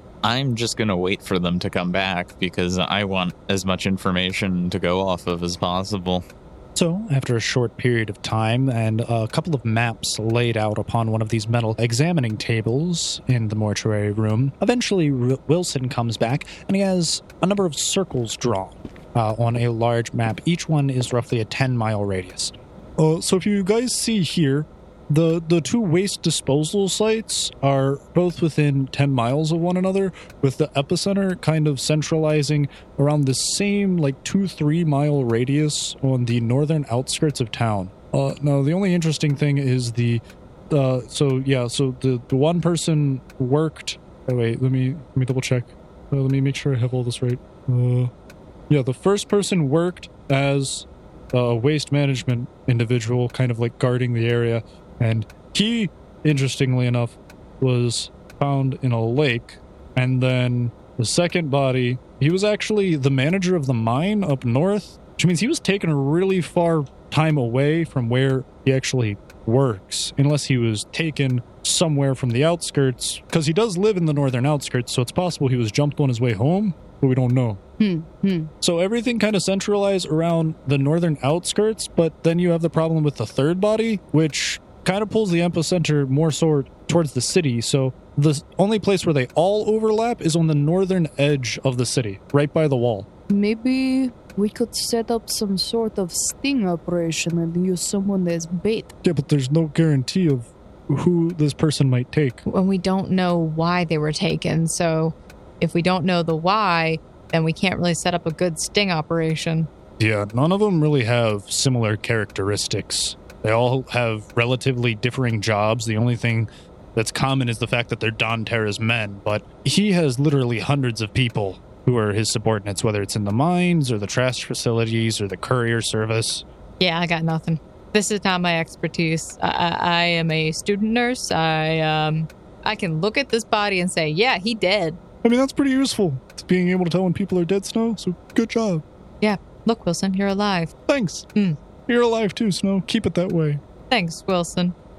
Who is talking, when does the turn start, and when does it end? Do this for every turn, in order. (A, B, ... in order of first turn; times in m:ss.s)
0:00.2-0:06.2 A
0:06.8-0:48.1 B
0:48.7-1:17.6 B
1:17.8-1:18.5 C
1:18.6-1:33.1 B
1:33.3-1:38.9 C
1:39.0-1:42.4 B
1:42.4-1:49.7 D
1:50.0-2:06.4 B
2:06.8-2:15.0 D
2:15.2-2:18.8 B
2:19.2-2:20.7 D
2:20.9-2:21.2 B
2:21.9-2:23.6 B
2:23.9-2:24.7 D